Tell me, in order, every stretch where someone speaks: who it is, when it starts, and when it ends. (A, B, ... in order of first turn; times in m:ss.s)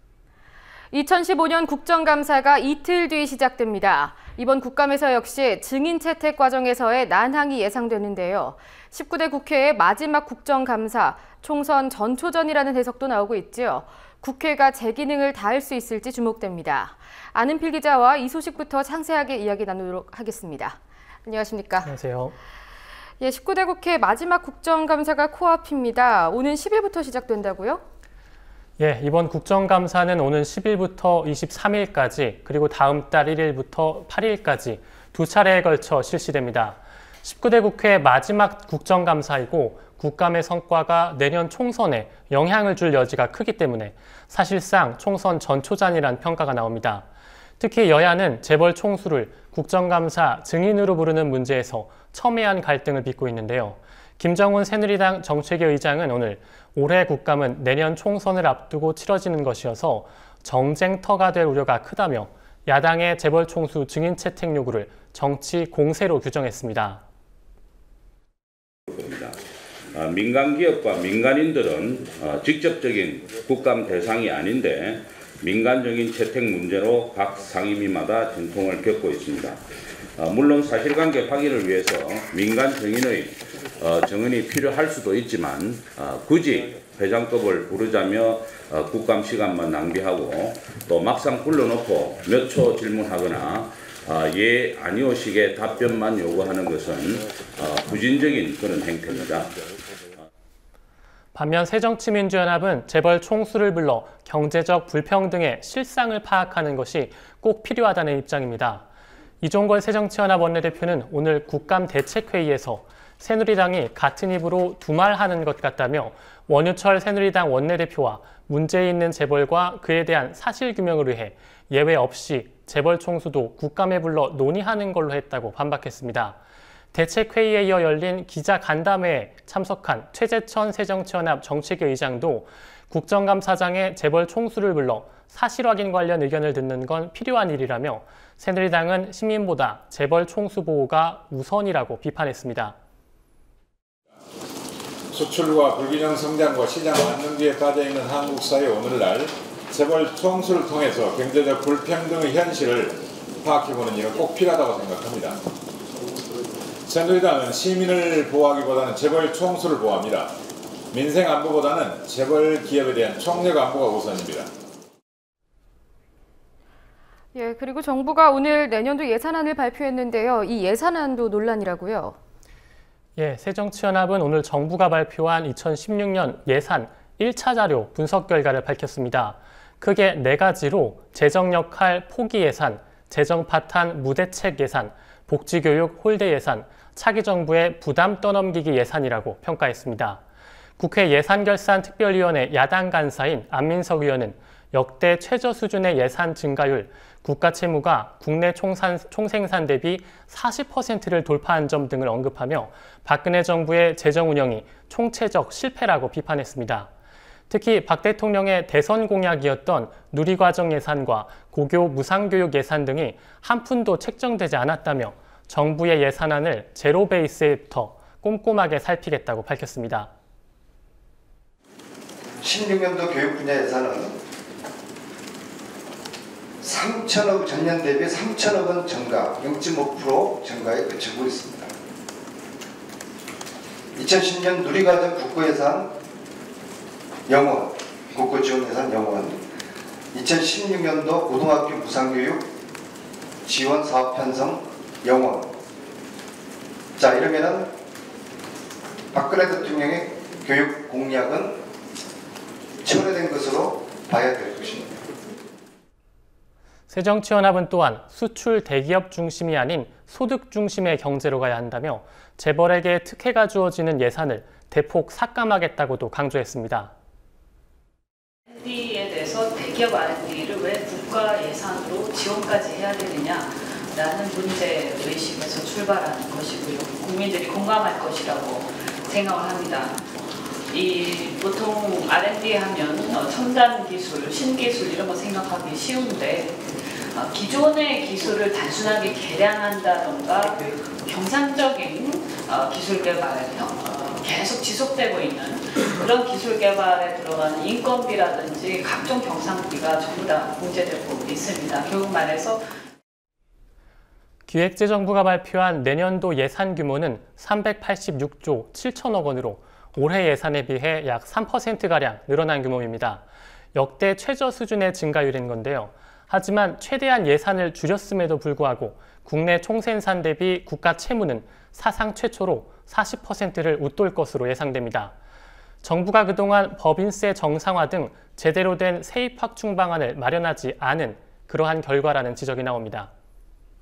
0:00.9-0:21.9 A
0:21.8-0:22.4 B
0:23.2-0:27.8 A
0:28.8-0:47.1 B
0:47.6-1:07.0 B
1:08.9-1:09.4 C
1:09.9-1:19.6 C
1:20.2-1:39.6 C
1:41.3-1:48.8 B
1:49.4-2:06.4 B
2:06.9-2:22.8 B
2:25.1-2:35.4 D
2:36.9-2:40.3 D
2:40.9-2:44.5 D
2:47.3-2:52.2 A
2:53.2-3:10.2 B
3:10.8-3:26.9 B
3:27.5-3:40.1 B
3:42.4-3:44.2 E
3:46.6-3:51.7 E
3:54.0-3:55.9 E
3:57.3-3:59.4 E
4:00.1-4:02.4 E
4:03.5-4:05.5 E
4:07.0-4:07.7 E
4:09.1-4:11.6 E
4:12.8-4:15.0 E
4:16.9-4:26.9 B
4:28.5-4:40.1 F
4:40.7-5:02.6 F
5:04.5-5:13.2 B
5:13.7-5:25.1 B
5:25.8-5:33.1 B